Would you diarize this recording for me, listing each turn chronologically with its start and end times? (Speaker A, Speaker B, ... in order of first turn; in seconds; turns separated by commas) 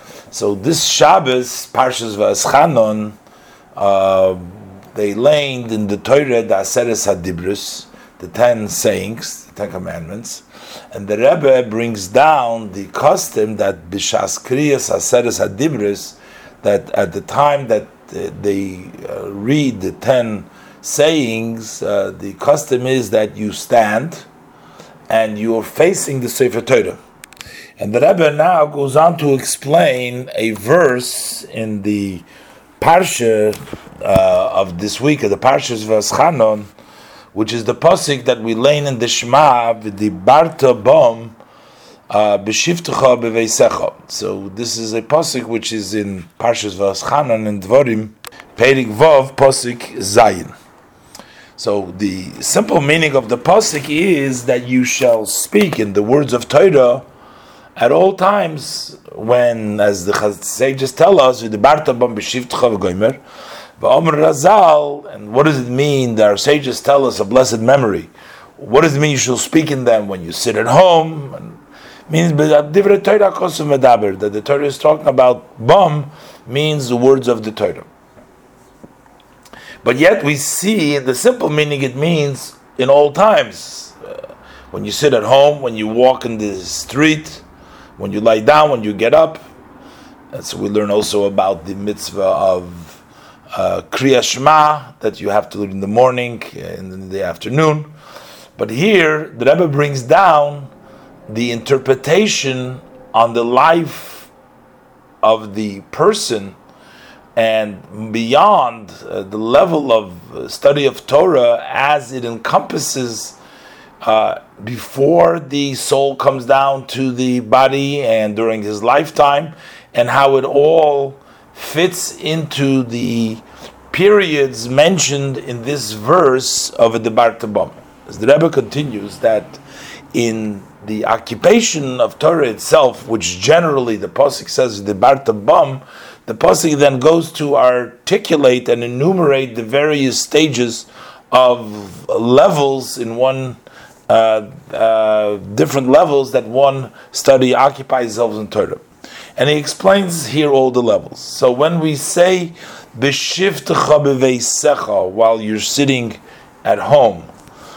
Speaker A: 0.3-3.2, Speaker A: 3.8-24.3, Speaker A: 25.1-27.0, Speaker A: 27.8-32.2, Speaker A: 32.8-36.7, Speaker A: 37.3-41.4, Speaker A: 42.1-50.5, Speaker A: 51.6-57.0, Speaker A: 57.8-63.2, Speaker A: 63.8-77.9, Speaker A: 79.8-84.0, Speaker A: 84.7-87.4, Speaker A: 88.0-89.4, Speaker A: 90.3-93.0, Speaker A: 93.5-97.9, Speaker A: 98.6-100.7, Speaker A: 101.3-104.3, Speaker A: 105.2-106.6, Speaker A: 107.4-113.4, Speaker A: 114.0-129.6, Speaker A: 130.1-148.8, Speaker A: 149.3-157.3